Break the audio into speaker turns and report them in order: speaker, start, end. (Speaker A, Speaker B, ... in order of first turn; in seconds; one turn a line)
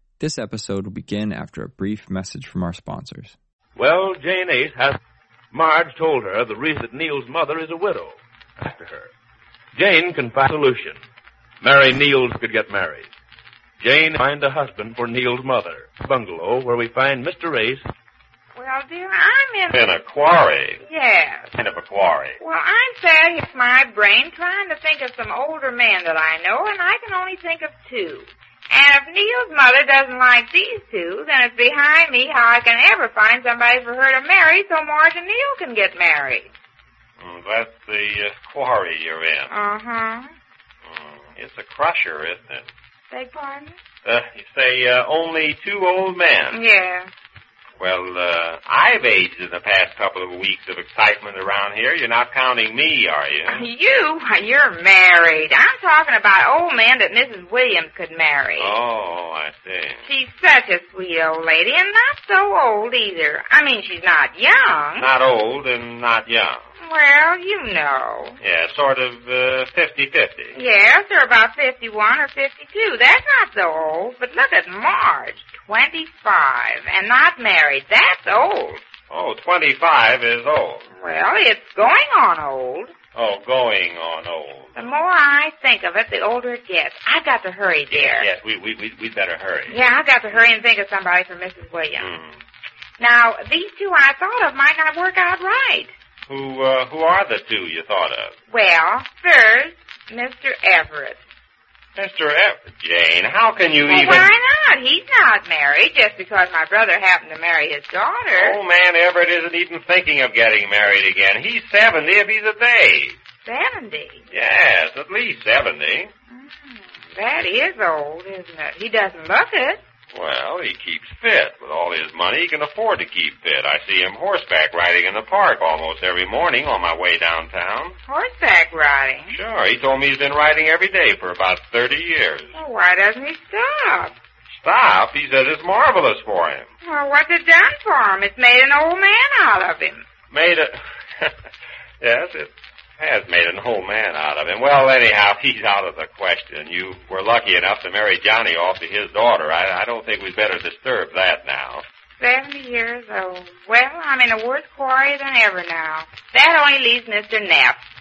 Speaker A: 0.2-3.4
Speaker B: 3.8-5.0
Speaker B: 5.5-9.1
Speaker B: 9.8-11.0
Speaker B: 11.6-13.1
Speaker B: 13.8-17.8
Speaker C: 18.5-19.8
Speaker D: 19.7-20.8
Speaker C: 20.8-21.5
Speaker D: 21.6-22.4
Speaker C: 22.4-36.5
Speaker D: 37.2-39.5
Speaker C: 39.5-40.3
Speaker D: 40.8-42.7
Speaker C: 43.1-43.8
Speaker D: 44.0-46.6
Speaker C: 46.5-47.1
Speaker D: 47.8-53.7
Speaker C: 53.5-58.8
Speaker D: 58.6-60.1
Speaker C: 60.0-65.1
Speaker D: 65.0-66.6
Speaker C: 66.8-68.4
Speaker D: 68.4-70.6
Speaker C: 70.5-78.8
Speaker D: 79.1-80.9
Speaker C: 80.9-82.9
Speaker D: 83.1-84.9
Speaker C: 84.8-88.3
Speaker D: 87.9-90.5
Speaker C: 89.7-92.1
Speaker D: 92.0-92.4
Speaker C: 93.0-95.9
Speaker D: 96.3-98.3
Speaker C: 98.5-101.2
Speaker D: 102.0-104.3
Speaker C: 103.8-108.6
Speaker D: 108.3-113.2
Speaker C: 113.5-114.3
Speaker D: 114.3-116.1
Speaker C: 116.3-119.8
Speaker D: 120.1-128.0
Speaker C: 128.1-129.4
Speaker D: 129.3-132.5
Speaker C: 132.5-134.2
Speaker D: 134.5-136.7
Speaker C: 136.8-140.1
Speaker D: 140.3-141.4
Speaker D: 142.0-151.8
Speaker C: 152.2-157.8